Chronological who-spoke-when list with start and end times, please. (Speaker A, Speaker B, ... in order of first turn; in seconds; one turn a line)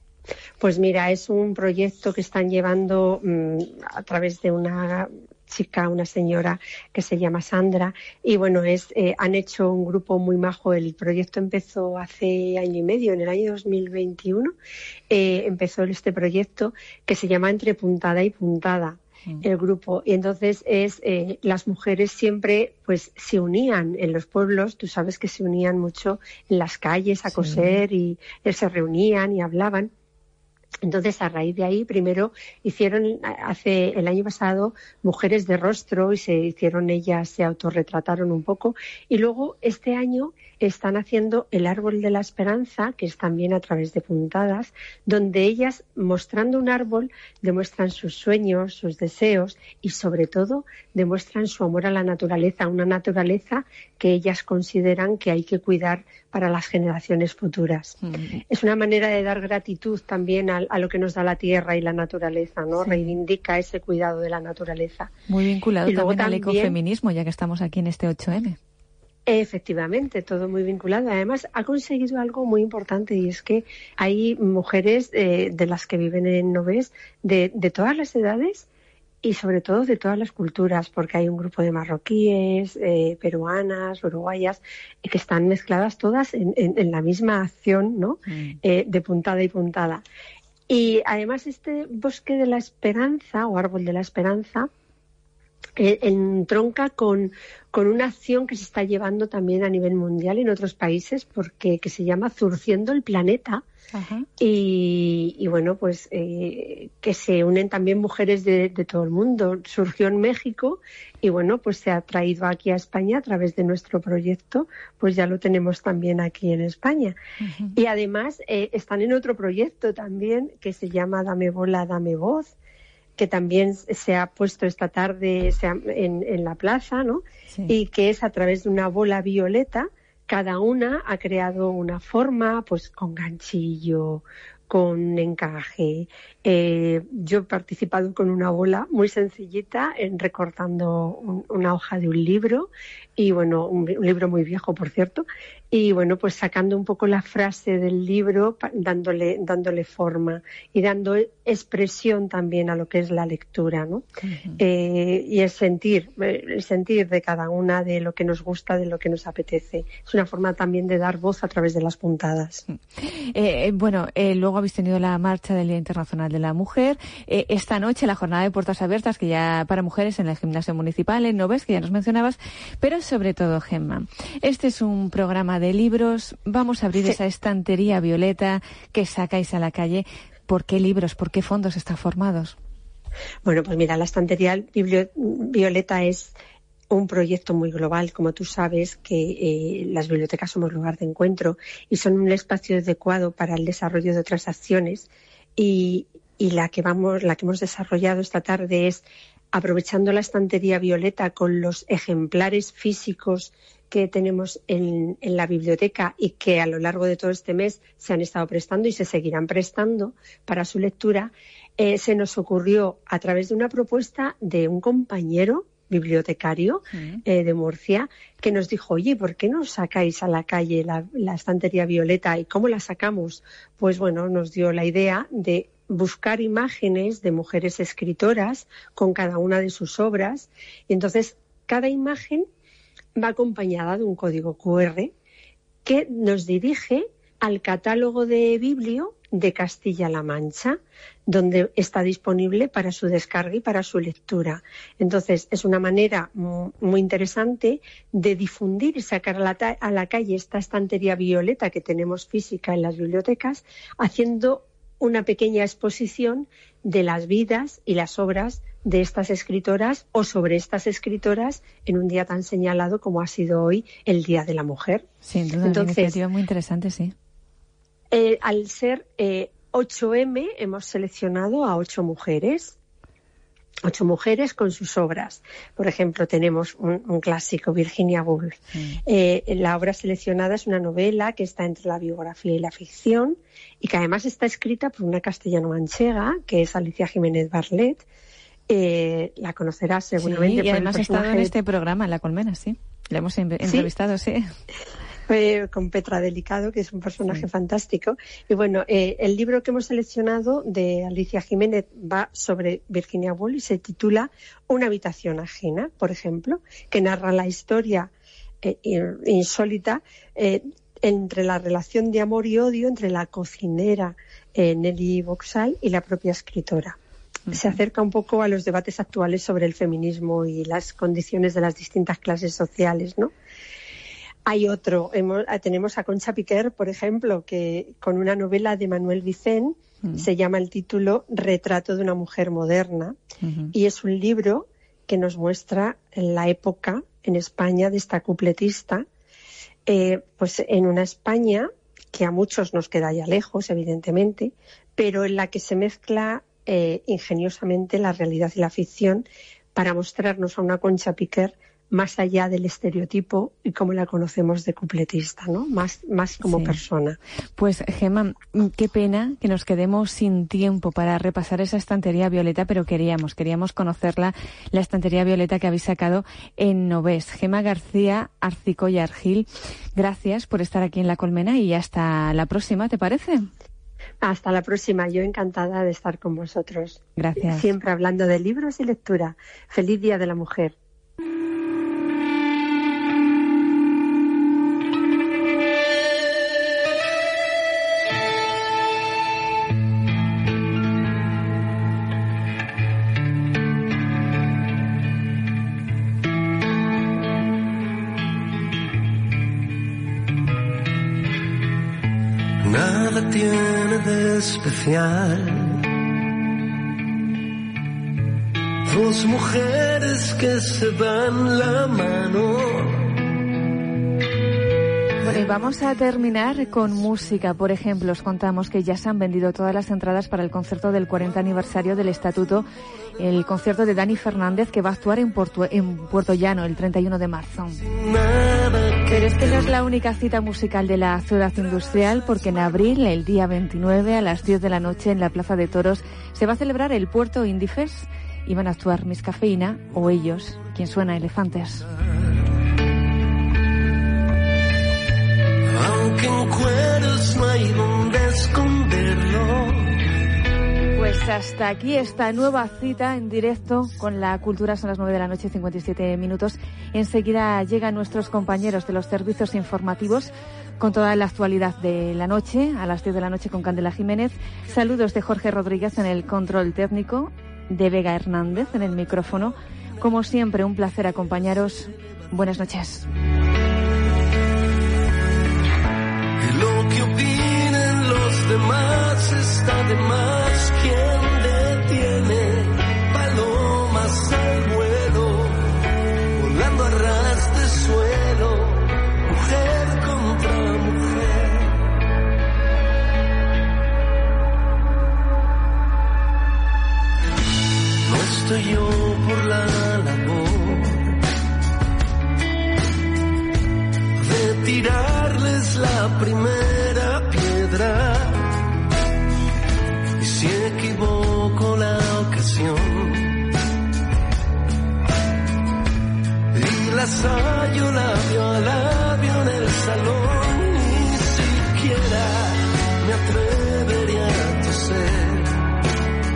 Speaker A: 0.6-14.5
Speaker A: 15.1-29.9
Speaker B: 27.3-27.8
Speaker A: 30.8-58.0
Speaker B: 58.0-58.4
Speaker A: 58.5-65.1
Speaker B: 62.8-63.1
Speaker B: 65.3-68.6
Speaker A: 65.9-66.8
Speaker A: 69.3-78.7
Speaker A: 79.2-90.0
Speaker B: 88.3-88.6
Speaker A: 90.7-94.7
Speaker A: 95.8-103.6
Speaker B: 103.9-104.3
Speaker A: 104.4-117.2
Speaker B: 117.4-117.8
Speaker A: 117.8-122.5
Speaker A: 123.2-154.1
Speaker B: 154.2-154.6
Speaker A: 154.6-162.6
Speaker B: 162.7-182.5
Speaker A: 183.4-186.3
Speaker A: 186.9-232.4
Speaker B: 216.9-217.2
Speaker A: 233.2-235.1
Speaker A: 235.8-265.1
Speaker B: 265.2-267.1
Speaker A: 265.6-266.2
Speaker A: 268.1-272.8
Speaker A: 273.8-288.0
Speaker A: 288.7-291.5
Speaker B: 290.2-294.5
Speaker A: 293.6-293.9
Speaker A: 295.3-308.1
Speaker A: 308.6-317.0
Speaker B: 317.5-317.8
Speaker A: 317.5-323.3
Speaker A: 324.4-333.2
Speaker B: 333.4-333.7
Speaker A: 333.7-339.0
Speaker A: 339.9-357.2
Speaker B: 356.4-356.8
Speaker B: 357.6-373.5
Speaker A: 374.2-380.7
Speaker B: 377.1-377.7
Speaker C: 402.6-405.8
Speaker C: 408.9-413.2
Speaker B: 415.2-422.7
Speaker B: 423.2-427.8
Speaker C: 427.8-429.4
Speaker B: 429.1-441.9
Speaker C: 445.7-450.0
Speaker B: 450.9-473.1
Speaker C: 476.4-485.8
Speaker C: 486.3-491.9
Speaker C: 498.0-501.2
Speaker C: 504.1-508.6
Speaker C: 510.2-513.5
Speaker C: 516.5-525.7